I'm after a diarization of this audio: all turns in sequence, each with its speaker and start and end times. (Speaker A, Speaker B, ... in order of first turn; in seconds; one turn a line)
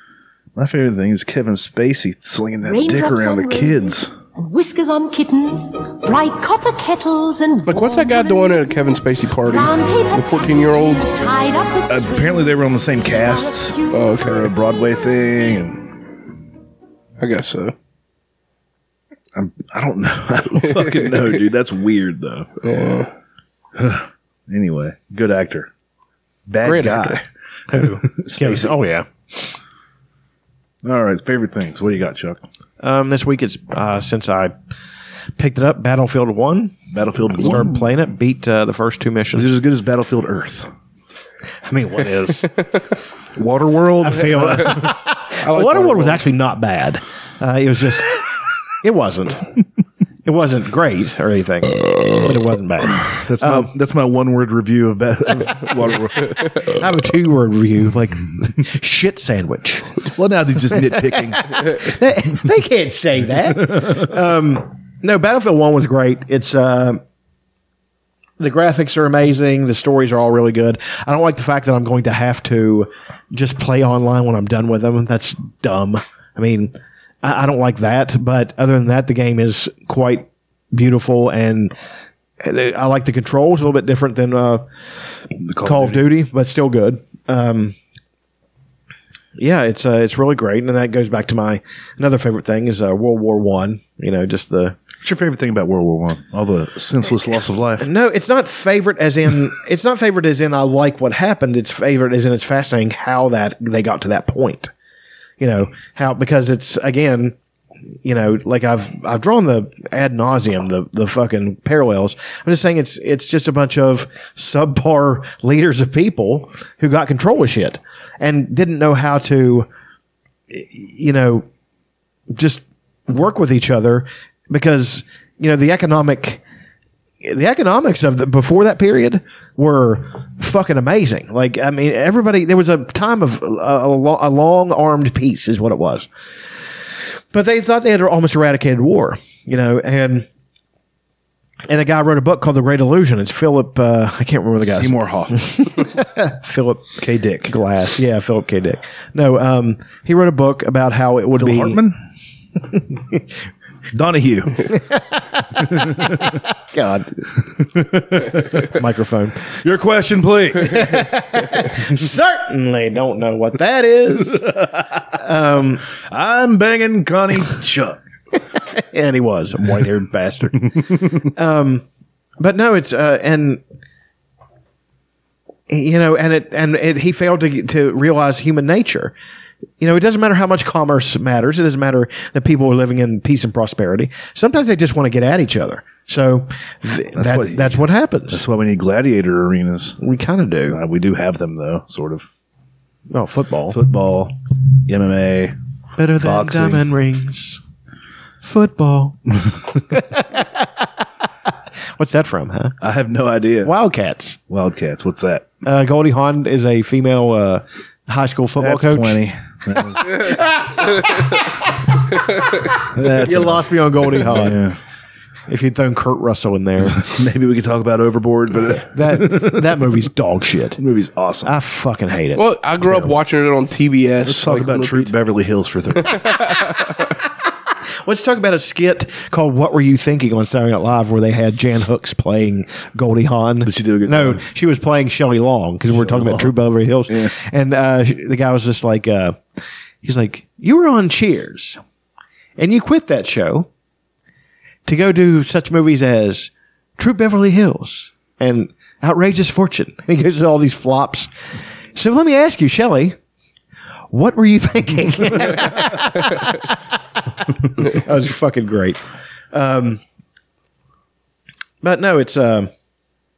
Speaker A: 0.5-4.1
Speaker B: 2.6-14.4
Speaker C: 7.7-11.1
Speaker A: 11.9-16.0
Speaker C: 13.9-14.5
Speaker C: 17.2-17.7
Speaker A: 19.3-22.5
Speaker C: 20.8-21.1
Speaker C: 22.6-23.1
Speaker A: 23.7-25.7
Speaker A: 26.5-28.8
Speaker C: 26.6-27.2
Speaker D: 27.7-29.5
Speaker A: 30.8-32.4
Speaker D: 32.8-34.5
Speaker D: 35.4-36.8
Speaker A: 36.9-37.9
Speaker D: 37.3-39.5
Speaker A: 39.3-40.7
Speaker D: 41.6-42.5
Speaker A: 43.4-44.9
Speaker D: 44.0-48.1
Speaker C: 45.4-46.2
Speaker D: 48.8-49.5
Speaker D: 50.2-53.7
Speaker A: 53.0-56.4
Speaker D: 56.6-59.9
Speaker A: 60.0-61.7
Speaker D: 60.9-67.0
Speaker A: 63.6-64.1
Speaker D: 68.4-81.7
Speaker D: 82.4-84.6
Speaker A: 85.4-86.1
Speaker D: 85.6-87.8
Speaker D: 89.4-94.8
Speaker A: 95.0-97.8
Speaker D: 97.8-104.7
Speaker D: 105.4-107.3
Speaker D: 108.0-119.7
Speaker D: 120.5-121.5
Speaker D: 122.3-126.4
Speaker D: 127.2-136.1
Speaker D: 137.3-140.3
Speaker D: 141.7-146.9
Speaker A: 144.6-145.6
Speaker A: 147.0-147.5
Speaker D: 147.5-151.8
Speaker A: 151.3-152.0
Speaker A: 153.9-154.7
Speaker D: 154.7-157.3
Speaker A: 155.6-156.4
Speaker A: 157.6-158.7
Speaker D: 158.7-159.4
Speaker A: 159.5-161.1
Speaker D: 160.7-165.8
Speaker A: 164.4-164.7
Speaker A: 166.0-168.0
Speaker D: 168.7-171.8
Speaker D: 172.4-173.6
Speaker D: 175.7-179.1
Speaker D: 179.8-188.4
Speaker A: 187.2-190.0
Speaker D: 190.0-190.8
Speaker A: 190.7-192.3
Speaker D: 193.1-193.8
Speaker A: 193.7-194.3
Speaker A: 194.9-195.5
Speaker D: 196.0-197.6
Speaker A: 196.2-196.9
Speaker D: 198.4-199.2
Speaker D: 199.9-200.9
Speaker D: 202.0-202.8
Speaker A: 202.8-203.7
Speaker D: 203.6-204.4
Speaker A: 204.5-205.5
Speaker D: 205.6-209.2
Speaker A: 208.6-210.3
Speaker D: 210.1-211.4
Speaker A: 212.8-214.8
Speaker D: 213.2-214.6
Speaker D: 215.5-217.0
Speaker A: 216.8-219.9
Speaker D: 218.9-220.8
Speaker A: 220.8-221.5
Speaker D: 221.4-223.2
Speaker C: 222.3-225.1
Speaker A: 224.2-226.3
Speaker D: 228.0-239.4
Speaker A: 233.6-234.4
Speaker A: 235.9-237.3
Speaker D: 240.0-241.8
Speaker D: 242.6-243.7
Speaker D: 244.8-251.3
Speaker D: 251.9-253.2
Speaker D: 254.1-256.8
Speaker D: 257.8-259.0
Speaker D: 259.5-260.0
Speaker D: 261.8-262.7